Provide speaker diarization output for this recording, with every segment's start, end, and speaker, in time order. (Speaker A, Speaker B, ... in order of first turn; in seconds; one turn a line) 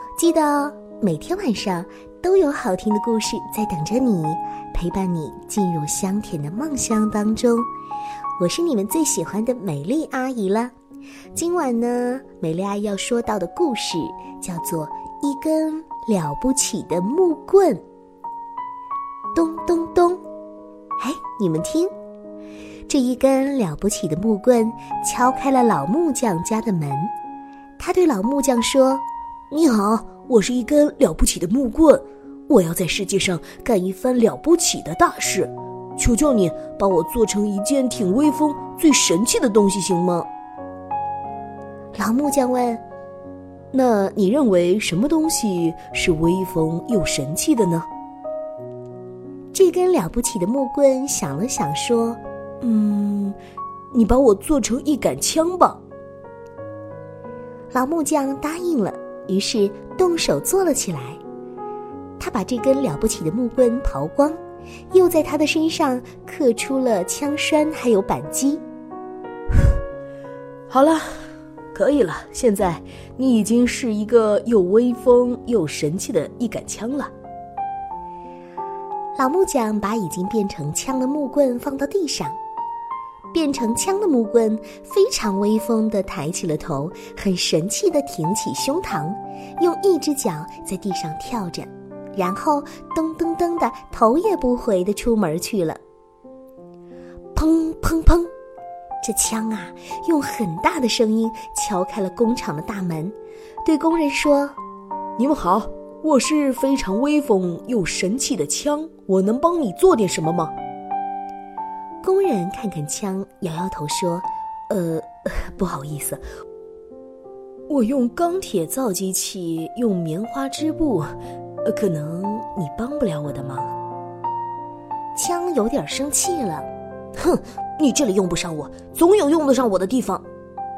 Speaker A: 0.2-7.7
Speaker A: 8.4-10.7
Speaker A: 11.3-17.8
Speaker A: 19.3-20.2
Speaker A: 21.0-21.9
Speaker A: 22.9-27.1
Speaker A: 27.8-30.6
Speaker B: 30.0-33.6
Speaker A: 33.4-35.0
Speaker B: 34.4-40.3
Speaker A: 42.0-42.8
Speaker B: 43.7-47.9
Speaker A: 49.5-52.2
Speaker B: 52.6-53.4
Speaker B: 53.9-55.8
Speaker A: 57.7-61.2
Speaker A: 62.2-64.4
Speaker A: 64.9-68.6
Speaker B: 70.7-77.1
Speaker A: 79.2-82.4
Speaker A: 83.3-95.8
Speaker A: 97.3-98.3
Speaker A: 99.0-104.6
Speaker B: 105.2-110.5
Speaker A: 112.0-116.2
Speaker B: 117.7-121.1
Speaker B: 121.7-123.7
Speaker A: 125.2-126.7
Speaker B: 127.2-130.2